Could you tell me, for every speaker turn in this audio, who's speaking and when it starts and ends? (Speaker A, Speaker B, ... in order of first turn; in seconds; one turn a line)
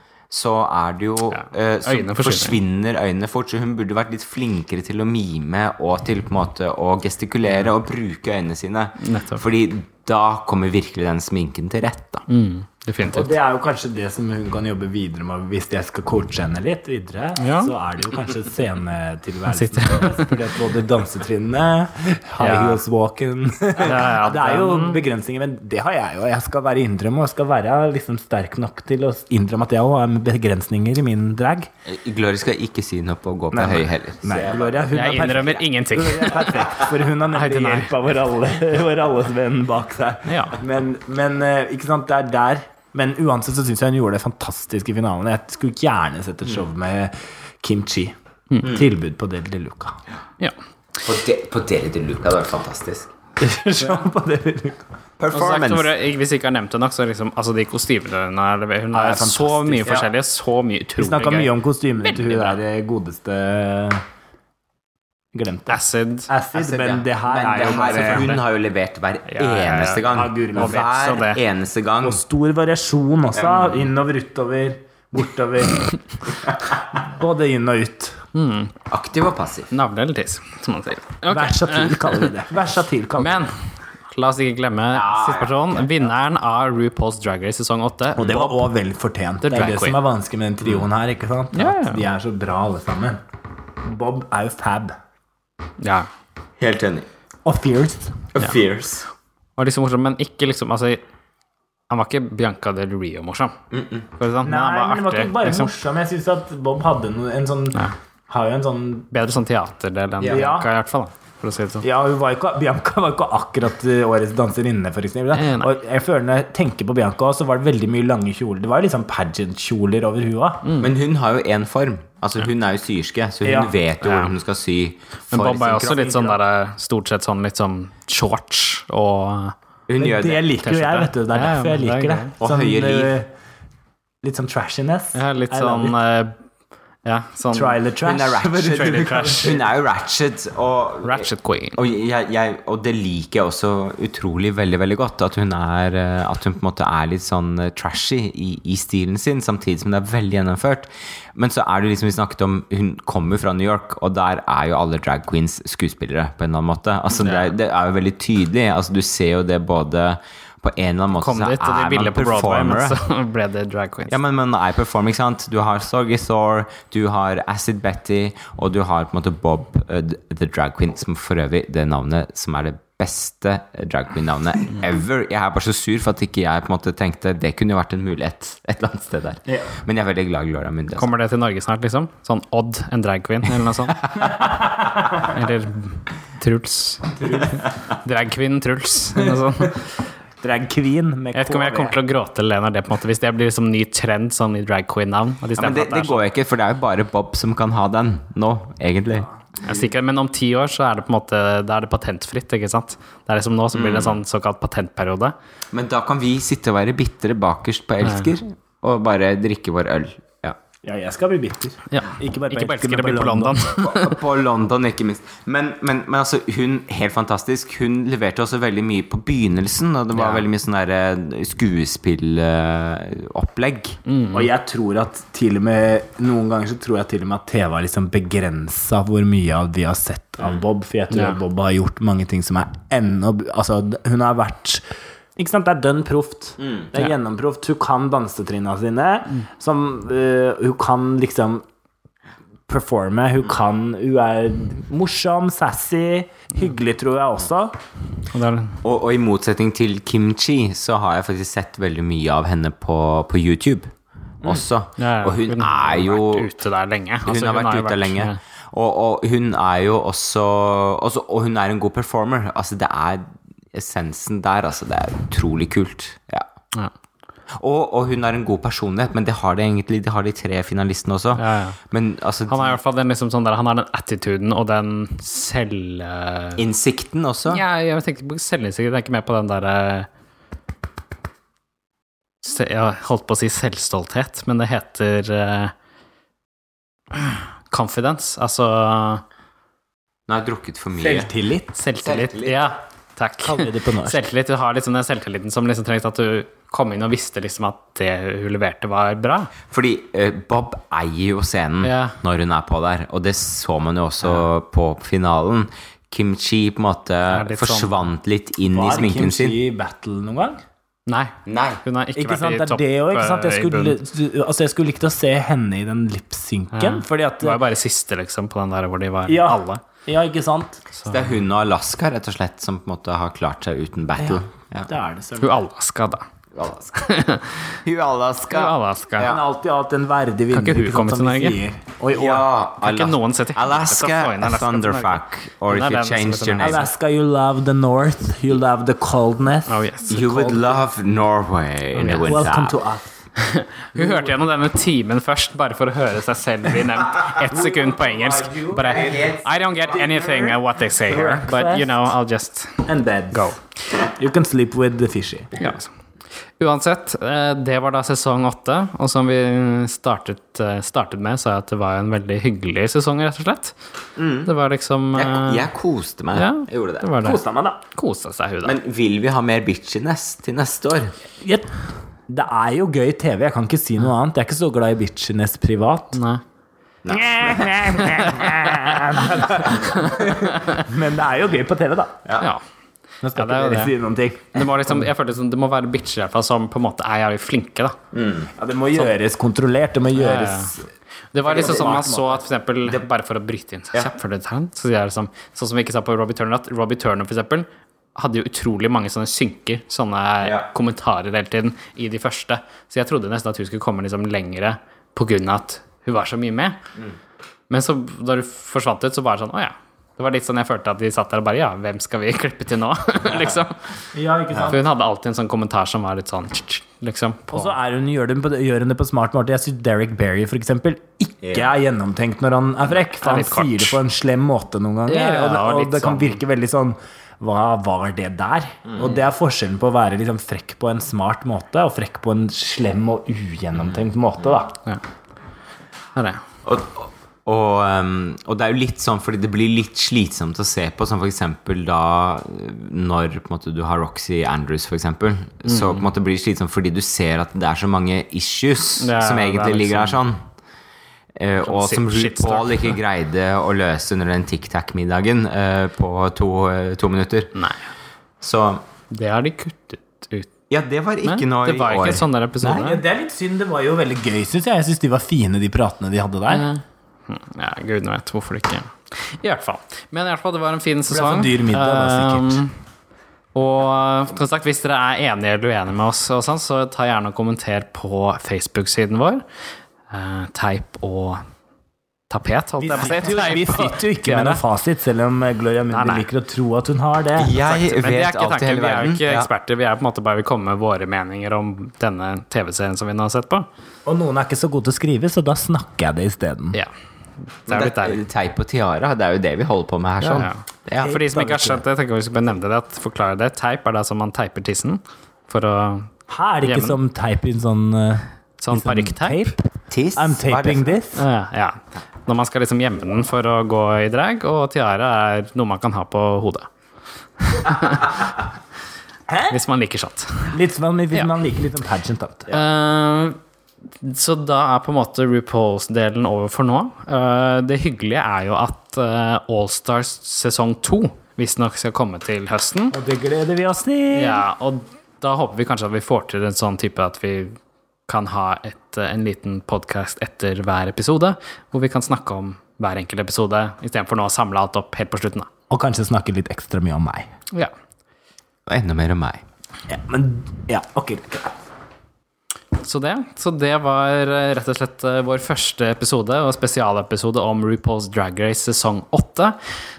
Speaker A: 0.3-12.2
Speaker B: 1.3-2.6
Speaker B: 9.0-9.4
Speaker B: 12.3-13.3
Speaker C: 13.1-31.7
Speaker B: 17.4-17.7
Speaker B: 19.5-20.4
Speaker B: 22.4-22.8
Speaker B: 23.8-25.0
Speaker A: 31.9-34.9
Speaker C: 33.5-50.0
Speaker B: 34.9-36.7
Speaker B: 37.3-37.9
Speaker B: 40.3-40.6
Speaker A: 51.0-53.1
Speaker C: 53.4-54.9
Speaker A: 55.2-55.9
Speaker B: 55.3-61.5
Speaker C: 58.9-60.1
Speaker C: 61.0-64.0
Speaker B: 62.0-62.6
Speaker C: 65.3-68.4
Speaker B: 65.7-66.3
Speaker A: 66.5-72.2
Speaker B: 67.5-68.4
Speaker B: 69.3-71.4
Speaker C: 70.1-70.8
Speaker C: 72.0-78.2
Speaker A: 73.4-73.8
Speaker B: 78.3-78.7
Speaker A: 78.9-79.7
Speaker B: 79.7-82.4
Speaker C: 81.3-83.5
Speaker B: 83.2-88.7
Speaker A: 84.9-85.9
Speaker C: 88.2-93.2
Speaker B: 89.4-90.0
Speaker B: 91.5-92.0
Speaker C: 93.8-95.0
Speaker B: 95.8-96.1
Speaker A: 96.6-97.1
Speaker C: 97.4-98.3
Speaker A: 98.3-99.1
Speaker B: 99.6-101.0
Speaker B: 101.9-103.6
Speaker A: 103.7-104.0
Speaker B: 104.2-105.7
Speaker C: 104.4-109.1
Speaker B: 109.1-111.8
Speaker A: 110.2-110.5
Speaker C: 110.2-110.7
Speaker C: 111.8-120.6
Speaker B: 115.3-115.7
Speaker B: 120.6-120.9
Speaker A: 120.8-126.4
Speaker C: 123.4-123.7
Speaker B: 124.0-124.3
Speaker B: 125.3-129.6
Speaker A: 129.9-130.5
Speaker C: 130.0-133.3
Speaker B: 130.6-132.3
Speaker A: 132.4-133.1
Speaker C: 134.2-136.0
Speaker B: 135.1-136.3
Speaker B: 137.1-137.8
Speaker C: 137.5-139.5
Speaker A: 138.0-163.0
Speaker B: 138.6-139.6
Speaker B: 141.0-141.8
Speaker B: 157.1-157.5
Speaker B: 161.2-164.2
Speaker A: 164.1-181.1
Speaker C: 179.5-179.7
Speaker B: 180.9-184.4
Speaker C: 184.4-185.1
Speaker B: 185.1-189.9
Speaker C: 187.2-187.6
Speaker C: 189.2-189.4
Speaker C: 190.4-192.0
Speaker B: 191.3-196.2
Speaker A: 195.6-199.3
Speaker B: 199.6-205.3
Speaker A: 203.7-204.2
Speaker A: 205.7-210.6
Speaker B: 208.0-208.3
Speaker C: 210.8-213.8
Speaker B: 211.9-214.2
Speaker A: 213.8-224.0
Speaker B: 220.1-220.4
Speaker B: 224.1-224.5
Speaker C: 224.3-241.6
Speaker B: 231.1-231.4
Speaker A: 236.6-236.9
Speaker C: 242.7-247.7
Speaker B: 248.3-248.8
Speaker A: 248.8-253.9
Speaker A: 254.4-256.5
Speaker B: 255.0-258.4
Speaker A: 257.2-266.5
Speaker A: 267.6-272.8
Speaker B: 271.3-271.8
Speaker B: 272.5-276.6
Speaker A: 276.6-277.6
Speaker B: 277.5-280.1
Speaker B: 282.4-285.7
Speaker B: 287.1-289.2
Speaker A: 290.3-291.3
Speaker C: 291.0-291.7
Speaker B: 291.7-299.5
Speaker A: 292.0-292.7
Speaker C: 293.4-294.2
Speaker A: 299.7-309.6
Speaker B: 301.8-302.2
Speaker B: 307.3-308.0
Speaker C: 308.7-310.6
Speaker B: 311.1-314.0
Speaker A: 311.4-311.8
Speaker C: 312.1-317.6
Speaker B: 316.7-319.8
Speaker C: 319.3-320.8
Speaker B: 320.9-321.4
Speaker A: 321.1-324.9
Speaker C: 324.2-325.6
Speaker B: 325.4-326.3
Speaker A: 326.6-326.9
Speaker B: 326.9-327.8
Speaker A: 327.8-329.4
Speaker B: 328.5-329.3
Speaker C: 329.2-332.5
Speaker B: 330.5-331.6
Speaker A: 332.1-336.8
Speaker B: 332.8-336.9
Speaker C: 336.6-340.8
Speaker B: 339.7-340.1
Speaker A: 340.1-342.8
Speaker B: 341.9-342.5
Speaker C: 342.2-343.1
Speaker B: 343.4-353.6
Speaker C: 343.9-344.3
Speaker C: 347.5-349.4
Speaker A: 348.8-350.4
Speaker C: 350.9-352.0
Speaker C: 352.8-355.5
Speaker B: 355.6-355.9
Speaker B: 356.6-363.8
Speaker A: 364.2-364.5
Speaker B: 364.4-365.7
Speaker A: 365.1-367.1
Speaker B: 366.3-368.7
Speaker C: 367.2-367.8
Speaker A: 368.6-371.1
Speaker C: 371.4-371.7
Speaker C: 372.3-376.2
Speaker B: 376.1-376.4
Speaker A: 377.0-377.9
Speaker C: 377.1-382.2
Speaker B: 377.9-379.1
Speaker B: 379.8-380.8
Speaker C: 383.2-385.1
Speaker B: 383.3-383.9
Speaker B: 384.5-388.0
Speaker A: 388.1-388.5
Speaker C: 388.6-390.9
Speaker B: 390.1-390.8
Speaker B: 391.3-406.8
Speaker C: 391.4-392.4
Speaker A: 391.6-391.9
Speaker B: 407.7-417.8
Speaker C: 414.1-414.8
Speaker C: 417.5-434.7
Speaker A: 421.4-421.7
Speaker B: 423.2-424.0
Speaker B: 425.1-426.4
Speaker B: 436.1-436.4
Speaker A: 436.6-450.4
Speaker B: 445.6-446.1
Speaker B: 449.0-450.2
Speaker A: 451.4-457.6
Speaker B: 451.6-452.9
Speaker B: 457.6-457.9
Speaker A: 458.4-458.8
Speaker B: 459.1-460.5
Speaker A: 460.7-462.9
Speaker B: 461.2-463.0
Speaker C: 462.7-466.7
Speaker B: 466.5-472.7
Speaker C: 471.1-472.6
Speaker B: 473.6-479.4
Speaker B: 480.1-481.4
Speaker B: 482.3-484.6
Speaker C: 482.8-487.5
Speaker B: 485.9-486.3
Speaker A: 487.4-489.5
Speaker B: 487.5-493.7
Speaker C: 494.1-496.8
Speaker B: 497.4-498.2
Speaker A: 497.7-501.1
Speaker B: 500.2-506.1
Speaker C: 501.0-501.8
Speaker C: 506.3-509.6
Speaker B: 506.6-507.0
Speaker B: 508.6-509.5
Speaker A: 509.9-511.0
Speaker C: 510.1-511.2
Speaker B: 511.1-516.7
Speaker B: 517.4-518.3
Speaker C: 519.3-519.6
Speaker B: 519.5-520.6
Speaker C: 520.5-522.5
Speaker B: 522.5-523.4
Speaker B: 524.0-533.0
Speaker C: 532.9-534.4
Speaker B: 534.1-545.5
Speaker C: 545.7-547.3
Speaker A: 548.7-549.4
Speaker C: 549.9-551.6
Speaker B: 552.8-559.7